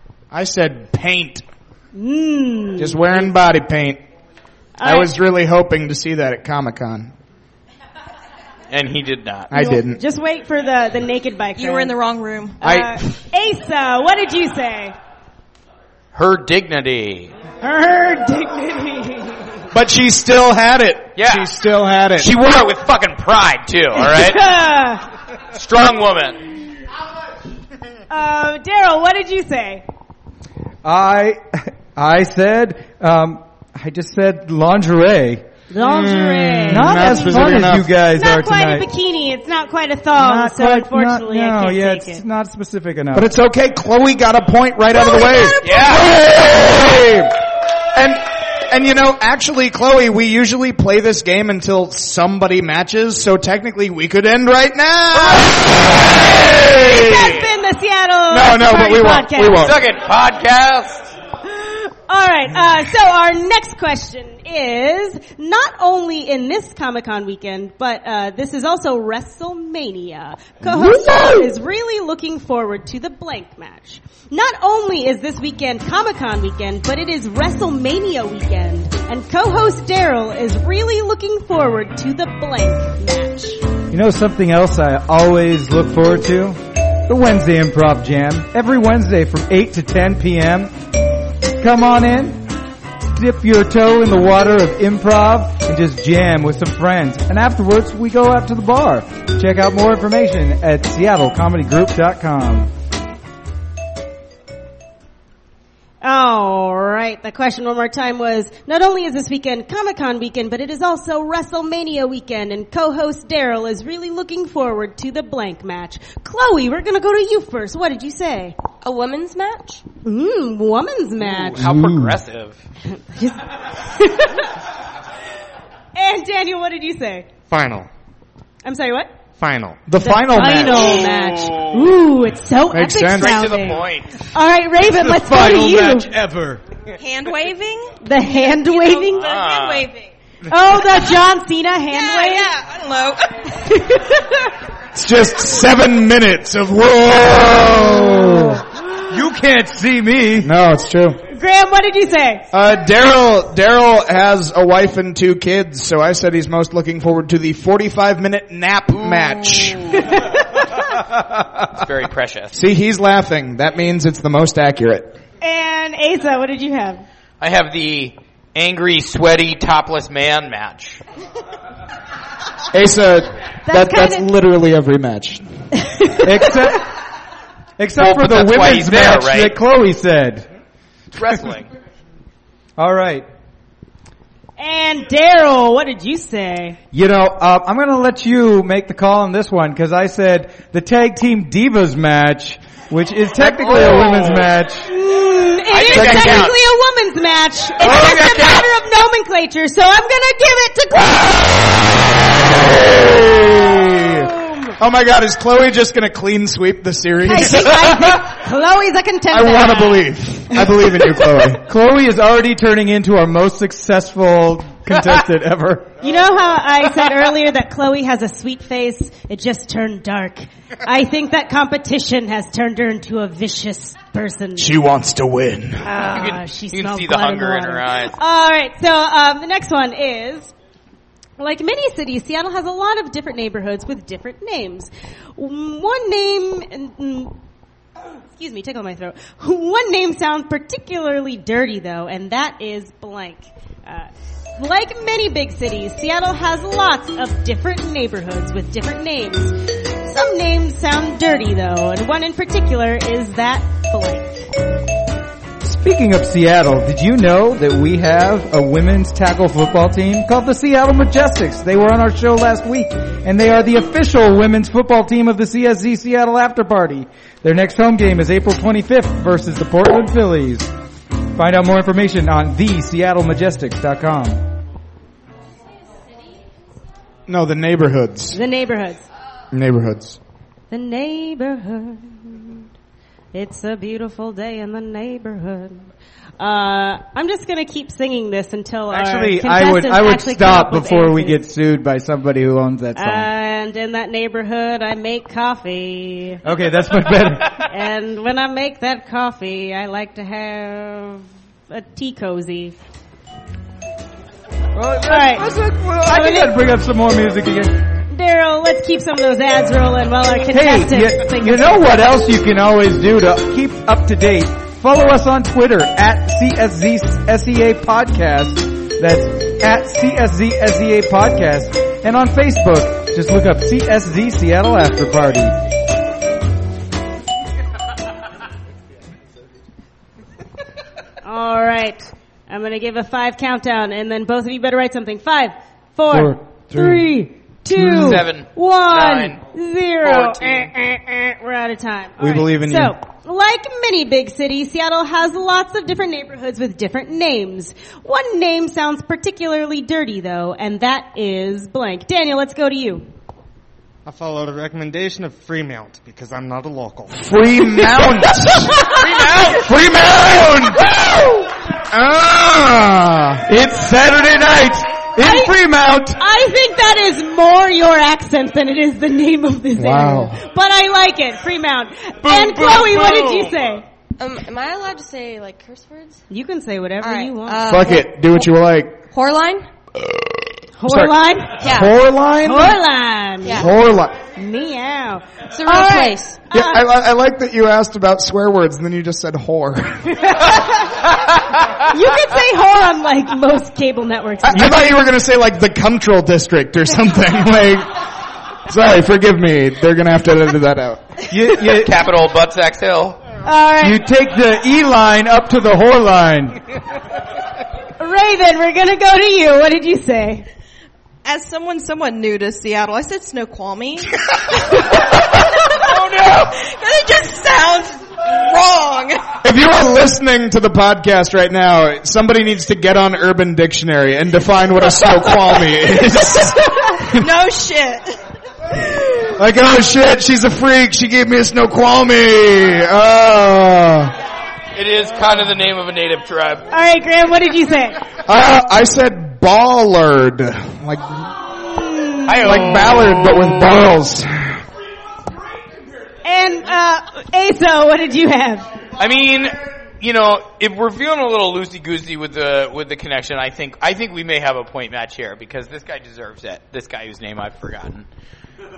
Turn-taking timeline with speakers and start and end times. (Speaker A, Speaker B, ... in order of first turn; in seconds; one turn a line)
Speaker A: 0.3-1.4
Speaker B: 1.9-3.0
Speaker A: 2.8-4.0
Speaker B: 4.8-5.1
Speaker A: 4.8-7.1
Speaker C: 8.7-9.5
Speaker A: 9.5-10.0
Speaker B: 9.5-12.0
Speaker D: 11.6-12.6
Speaker B: 12.6-14.9
Speaker A: 12.6-13.1
Speaker C: 16.1-17.3
Speaker B: 17.6-19.6
Speaker A: 19.7-22.3
Speaker C: 21.2-21.5
Speaker C: 22.2-24.4
Speaker B: 24.0-25.0
Speaker C: 25.5-26.4
Speaker B: 28.1-29.8
Speaker E: 30.8-35.5
Speaker B: 35.7-37.6
Speaker A: 35.8-37.9
Speaker E: 36.7-38.9
Speaker B: 38.1-42.2
Speaker E: 40.1-43.3
Speaker A: 43.1-47.3
Speaker B: 45.0-45.7
Speaker C: 45.6-46.2
Speaker A: 47.9-57.4
Speaker B: 55.1-55.5
Speaker C: 56.1-56.5
Speaker B: 56.5-59.7
Speaker A: 58.3-59.8
Speaker C: 59.6-61.1
Speaker B: 61.5-83.6
Speaker E: 83.9-90.7
Speaker E: 91.5-92.5
Speaker E: 93.1-102.7
Speaker B: 106.0-118.5
Speaker F: 118.8-119.8
Speaker B: 120.0-121.7
Speaker C: 121.2-122.6
Speaker E: 121.6-122.1
Speaker B: 123.0-124.5
Speaker B: 126.0-127.3
Speaker G: 127.5-127.9
Speaker B: 128.6-129.1
Speaker G: 129.4-129.8
Speaker A: 129.9-131.1
Speaker B: 130.0-136.1
Speaker C: 130.6-131.9
Speaker A: 132.7-133.4
Speaker C: 133.1-134.2
Speaker E: 134.9-136.6
Speaker D: 137.0-140.1
Speaker B: 138.0-139.5
Speaker C: 139.1-139.9
Speaker B: 140.5-142.5
Speaker D: 141.9-143.5
Speaker B: 143.6-144.6
Speaker A: 144.9-148.6
Speaker E: 149.1-150.5
Speaker A: 150.4-151.2
Speaker B: 151.3-152.5
Speaker A: 152.5-160.0
Speaker C: 158.9-160.1
Speaker B: 160.0-160.9
Speaker C: 161.7-162.6
Speaker A: 162.5-165.1
Speaker B: 165.4-167.0
Speaker C: 167.4-171.0
Speaker A: 172.7-175.5
Speaker B: 173.7-174.3
Speaker B: 175.8-176.8
Speaker E: 176.2-176.9
Speaker E: 177.8-180.5
Speaker C: 178.0-179.6
Speaker C: 181.1-181.7
Speaker E: 182.8-183.3
Speaker B: 184.6-186.8
Speaker E: 186.9-194.9
Speaker C: 193.4-194.5
Speaker B: 194.9-201.7
Speaker C: 195.7-196.6
Speaker A: 195.9-196.4
Speaker C: 197.8-198.7
Speaker A: 202.4-204.3
Speaker B: 204.1-204.8
Speaker A: 204.8-208.3
Speaker B: 207.2-211.3
Speaker A: 209.3-211.6
Speaker E: 211.6-215.9
Speaker B: 216.0-224.7
Speaker A: 224.6-225.9
Speaker B: 225.8-230.5
Speaker C: 226.1-228.2
Speaker B: 231.4-237.3
Speaker B: 238.3-254.5
Speaker E: 255.6-270.7
Speaker E: 271.4-274.4
Speaker A: 277.3-278.4
Speaker B: 278.3-279.0
Speaker A: 279.5-280.2
Speaker B: 280.7-282.6
Speaker B: 283.3-285.9
Speaker B: 286.4-291.4
Speaker E: 288.9-293.3
Speaker B: 293.0-296.4
Speaker E: 296.4-297.6
Speaker B: 297.7-302.8
Speaker E: 304.7-307.9
Speaker B: 305.1-306.6
Speaker B: 308.1-311.8
Speaker E: 310.5-325.6
Speaker B: 331.2-353.1
Speaker A: 336.1-336.9
Speaker C: 337.9-339.4
Speaker C: 340.0-340.7
Speaker A: 342.2-342.9
Speaker G: 354.1-357.3
Speaker A: 357.1-358.9
Speaker B: 358.7-359.0
Speaker C: 358.8-359.8
Speaker E: 359.5-361.4
Speaker A: 361.9-363.4
Speaker E: 363.5-366.2
Speaker B: 365.2-365.6
Speaker B: 366.2-373.9
Speaker A: 369.8-370.4
Speaker C: 372.6-373.5
Speaker F: 374.2-376.2
Speaker B: 376.3-377.7
Speaker F: 377.0-378.5
Speaker A: 377.7-379.0
Speaker F: 379.1-379.7
Speaker A: 380.0-381.1
Speaker B: 380.8-381.7
Speaker F: 381.6-381.9
Speaker A: 381.7-382.6
Speaker E: 381.7-382.7
Speaker B: 382.4-383.7
Speaker F: 383.4-383.8
Speaker A: 383.5-384.2
Speaker B: 384.4-386.8
Speaker F: 385.5-386.5
Speaker A: 386.5-390.4
Speaker B: 390.1-391.1
Speaker B: 391.9-395.0
Speaker A: 394.5-398.0
Speaker A: 398.7-401.2
Speaker E: 401.3-402.0
Speaker C: 401.6-403.2
Speaker B: 403.4-404.0
Speaker E: 403.8-406.6
Speaker B: 408.0-410.5
Speaker D: 411.2-419.3
Speaker A: 419.4-427.3
Speaker D: 425.5-428.2
Speaker A: 429.4-434.1
Speaker C: 434.8-436.7
Speaker B: 436.7-438.0
Speaker A: 438.3-441.3
Speaker B: 441.7-442.3
Speaker C: 442.3-443.6
Speaker A: 442.4-444.6
Speaker B: 446.2-448.7
Speaker C: 449.0-458.1